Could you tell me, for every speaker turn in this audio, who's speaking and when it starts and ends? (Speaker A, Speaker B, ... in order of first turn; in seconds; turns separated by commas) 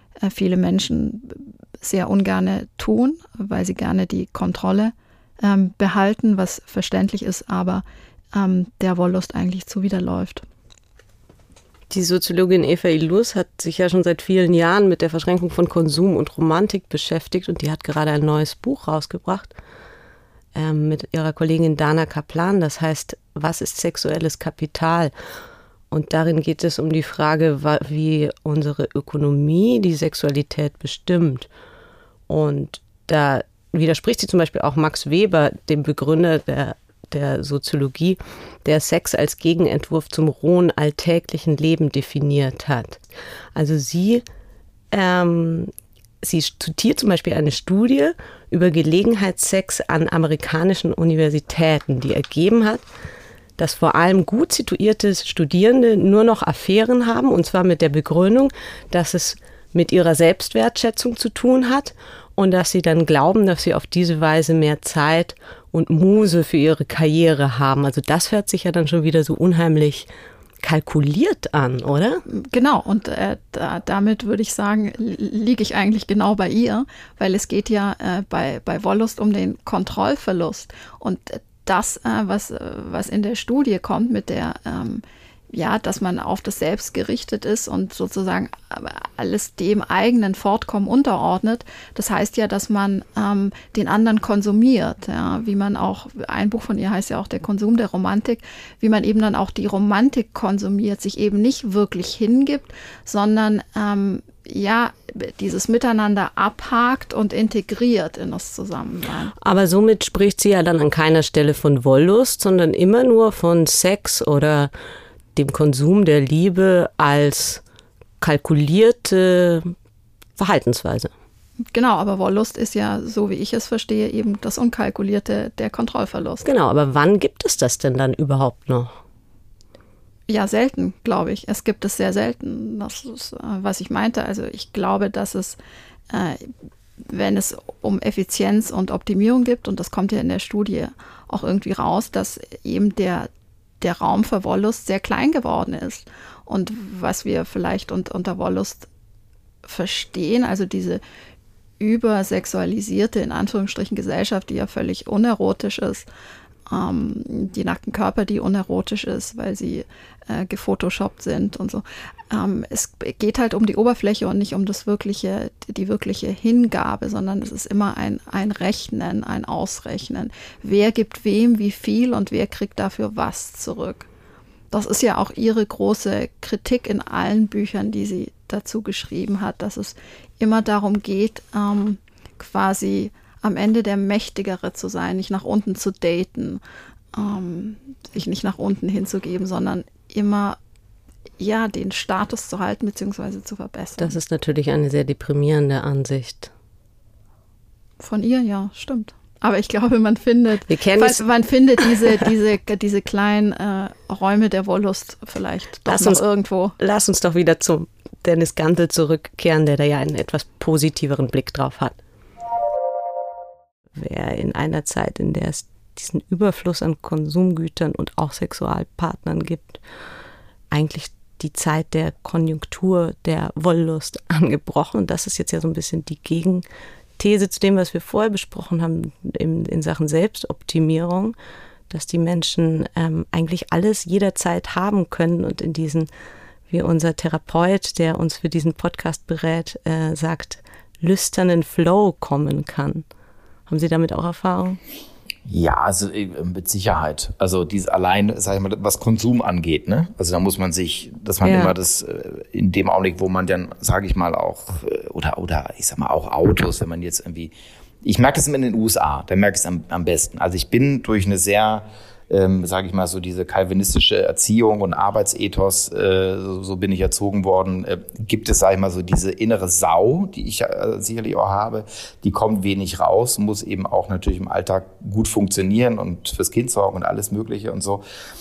Speaker A: 0.2-10.4, Speaker B: 11.9-19.5, Speaker B: 20.6-25.1, Speaker B: 25.9-31.5, Speaker B: 32.3-43.0, Speaker B: 43.5-44.2, Speaker B: 44.9-52.8, Speaker B: 53.6-70.1, Speaker B: 70.6-72.2, Speaker A: 72.3-109.3, Speaker B: 109.4-114.7, Speaker B: 115.3-117.6, Speaker B: 118.2-119.8, Speaker B: 120.4-121.1, Speaker A: 121.7-126.4, Speaker B: 126.4-128.9, Speaker A: 130.3-135.6, Speaker A: 136.1-136.5, Speaker A: 137.0-143.3, Speaker A: 143.8-148.9, Speaker A: 149.7-151.0, Speaker A: 151.8-156.1, Speaker A: 156.7-174.1, Speaker A: 174.7-186.6, Speaker A: 187.1-190.6, Speaker A: 191.4-194.1, Speaker B: 194.0-196.5, Speaker A: 198.0-206.8, Speaker B: 200.7-201.2, Speaker B: 201.8-202.3, Speaker B: 205.9-206.2, Speaker B: 206.8-212.0, Speaker B: 213.9-219.8, Speaker B: 220.7-226.6, Speaker B: 227.2-231.3, Speaker B: 231.9-236.1, Speaker B: 236.7-243.1, Speaker B: 243.7-244.8, Speaker C: 245.5-278.0, Speaker B: 251.4-251.8